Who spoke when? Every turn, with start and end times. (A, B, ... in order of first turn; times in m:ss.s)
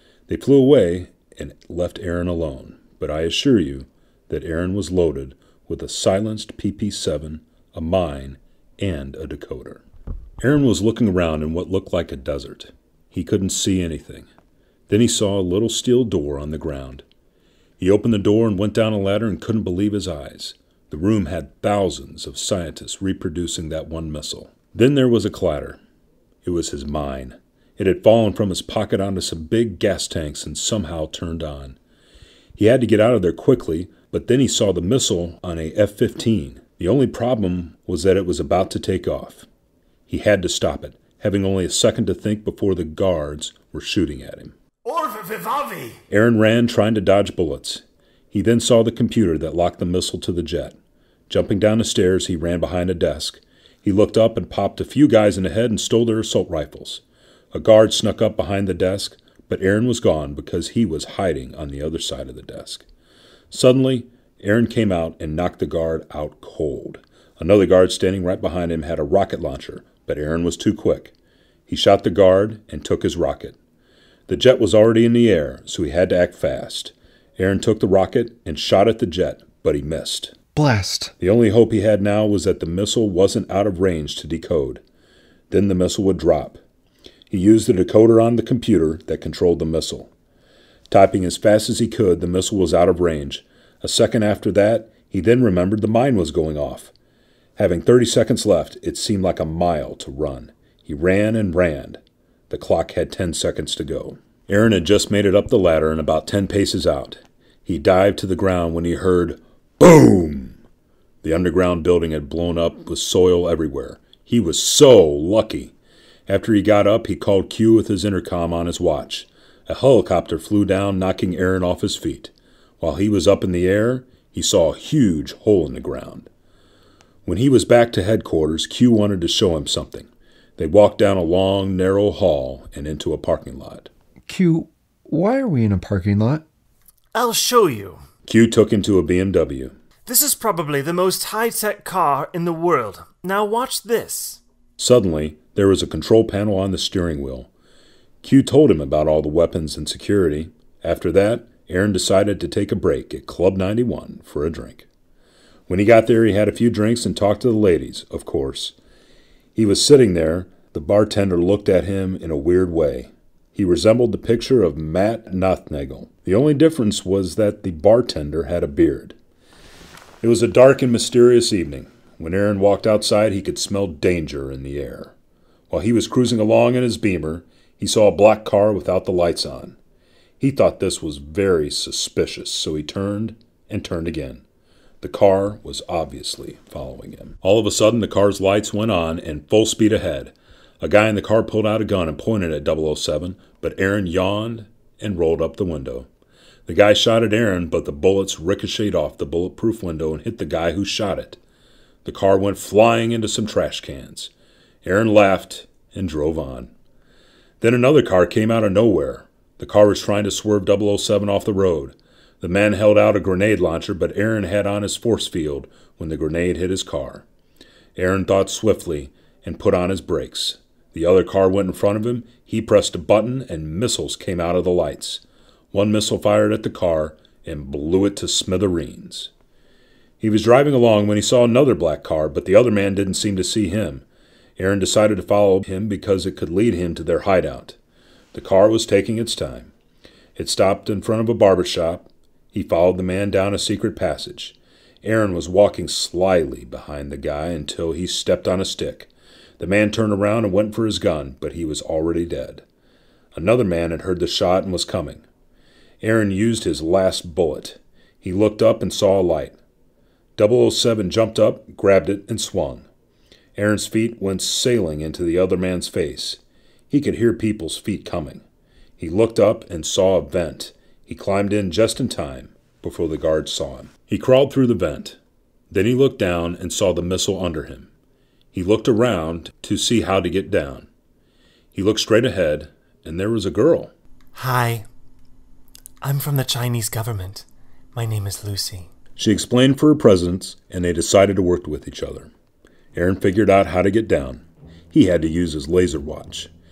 0:00.3-0:09.8 A
0:10.4-0:14.3 A
0:14.9-0:17.0 A
0:17.8-0:25.8 A
0:26.4-0:31.8 A
0:32.6-0:39.4 A
0:40.1-0:44.5 A
0:44.8-0:46.0 B
0:46.1-0:50.8 A
0:51.3-1:02.8 A
1:03.5-1:11.1 A
1:11.7-1:13.6 A
1:14.3-1:20.4 A
1:20.5-1:21.1 C
1:21.2-1:24.8 A
1:25.5-1:26.6 A
1:27.3-1:30.1 A
1:30.9-1:36.9 A
1:37.6-1:50.6 A
1:51.2-1:55.7 A
1:56.3-2:06.3 A
2:07.2-2:13.9 A
2:14.3-2:16.4 C
2:17.1-2:18.0 B
2:18.2-2:19.7 A
2:20.0-2:24.4 B
2:24.8-2:27.5 A
2:28.2-2:34.9 A
2:35.7-2:38.7 A
2:39.6-2:49.2 A
2:50.2-2:55.1 A
2:55.7-2:59.8 A
3:00.4-3:04.4 A
3:05.0-3:16.1 A
3:16.7-3:21.4 A
3:22.0-3:24.3 A
3:24.8-3:26.7 A
3:27.6-3:37.2 A
3:38.0-3:49.3 A
3:50.2-3:54.0 A
3:54.6-3:57.8 A
3:58.3-3:59.7 A
4:00.4-4:12.6 A
4:13.3-4:15.2 A
4:16.0-4:19.6 A
4:20.4-4:22.9 A
4:23.6-4:28.4 A
4:29.0-4:35.2 A
4:35.7-4:37.9 A
4:38.5-4:40.9 A
4:41.7-4:43.9 A
4:44.3-4:44.8 B
4:46.0-4:48.9 B
4:49.2-4:52.3 A
4:52.9-4:56.5 A